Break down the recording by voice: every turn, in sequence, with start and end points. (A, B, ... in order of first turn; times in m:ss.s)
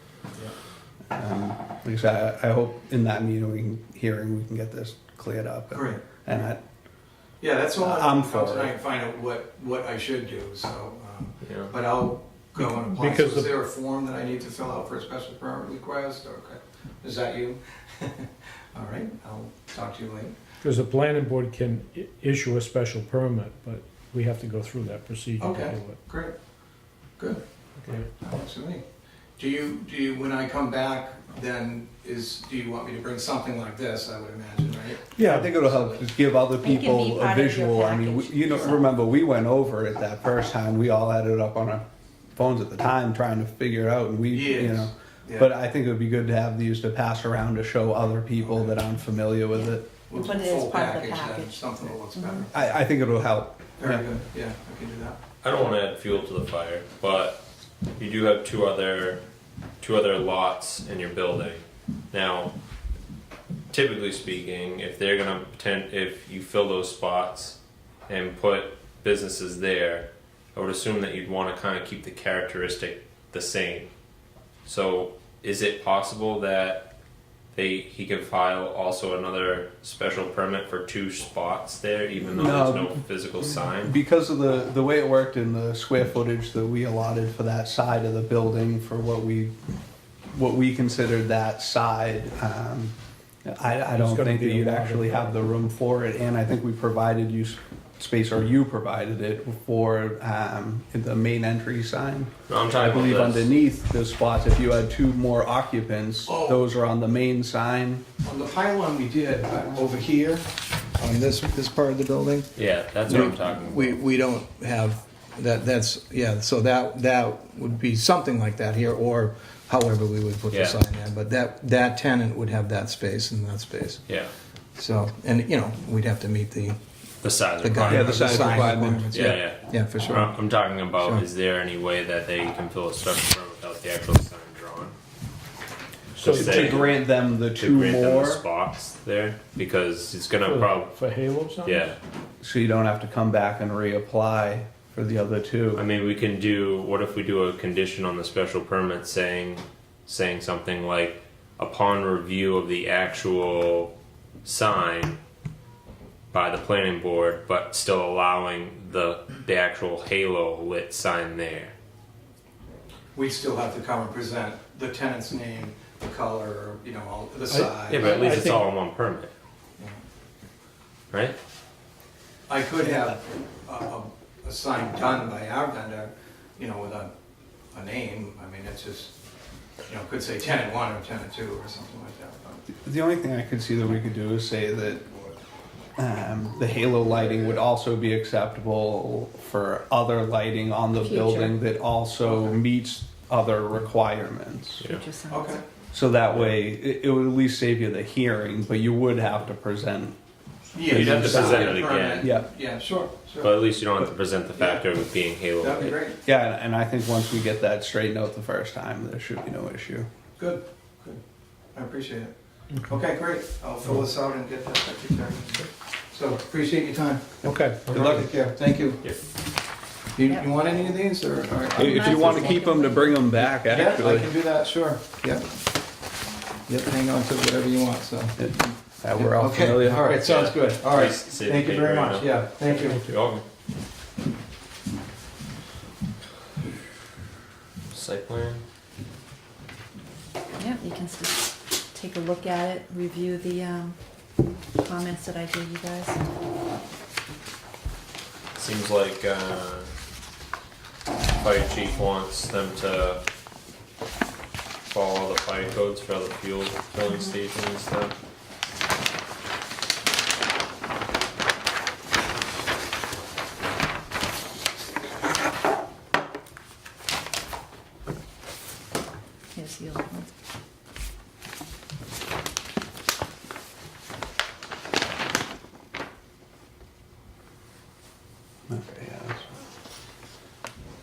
0:01.1-0:06.6 A
0:05.7-0:06.0 B
0:07.4-0:20.4 B
0:07.8-0:08.7 A
0:11.4-0:11.7 C
0:12.6-0:13.5 D
0:20.6-0:26.0 D
0:25.4-0:26.3 B
0:28.1-0:28.8 B
0:29.4-0:35.1 B
0:35.2-0:35.5 D
0:35.2-0:41.8 A
0:35.6-0:36.0 B
0:36.6-0:38.8 E
0:42.3-0:49.9 A
0:44.3-0:45.5 B
0:48.4-0:48.7 B
0:50.1-0:52.7 B
0:50.1-0:52.5 E
0:52.5-0:54.0 A
0:53.8-0:55.2 B
0:55.4-0:57.4 C
0:58.0-0:59.2 C
0:59.8-1:02.5 C
1:03.7-1:13.9 C
1:14.6-1:16.9 C
1:17.5-1:24.0 C
1:22.3-1:23.0 A
1:23.7-1:29.5 A
1:30.3-1:48.0 A
1:33.8-1:35.4 D
1:42.5-1:43.5 C
1:46.3-1:46.6 B
1:48.2-2:04.1 B
1:52.6-1:54.0 C
2:00.5-2:00.8 C
2:04.8-2:06.8 B
2:07.2-2:14.9 C
2:07.6-2:10.4 B
2:07.9-2:09.1 A
2:16.1-2:16.8 D
2:16.2-2:21.0 C
2:16.2-2:18.4 A
2:20.4-2:21.9 D
2:21.6-2:22.0 C
2:22.4-2:25.8 A
2:25.7-2:33.9 C
2:34.4-2:35.2 C
2:36.3-2:41.7 C
2:43.1-2:48.2 B
2:47.5-2:48.7 D
2:47.9-2:49.3 C
2:51.1-2:51.4 C
2:52.5-2:57.1 B
2:57.7-2:59.1 B
2:59.9-3:02.7 B
3:02.8-3:05.0 A
3:06.0-3:14.8 A
3:11.0-3:11.6 E
3:12.2-3:12.5 B
3:14.8-3:15.6 E
3:15.3-3:15.6 B
3:15.9-3:20.2 A
3:20.7-3:23.5 B
3:20.8-3:22.4 A
3:20.9-3:22.3 C
3:23.4-3:26.0 C
3:24.5-3:24.8 B
3:25.6-3:26.2 B
3:26.2-3:30.1 A
3:30.4-3:31.2 B
3:31.7-3:32.3 B
3:32.8-3:37.4 B
3:37.4-3:38.0 D
3:37.8-3:38.3 A
3:38.0-3:39.0 B
3:40.1-3:42.6 B
3:40.2-3:40.8 E
3:41.7-3:43.2 E
3:41.8-3:44.3 A
3:43.6-3:45.4 B
3:46.7-3:48.4 B
3:48.4-3:50.2 A
3:49.1-3:53.0 B
3:50.2-3:53.4 C
3:57.9-3:58.6 C
4:00.6-4:04.0 E
4:04.7-4:06.2 E
4:08.5-4:09.9 C
4:11.4-4:13.2 C
4:14.9-4:18.1 C
4:29.5-4:30.3 E
4:38.7-4:39.5 A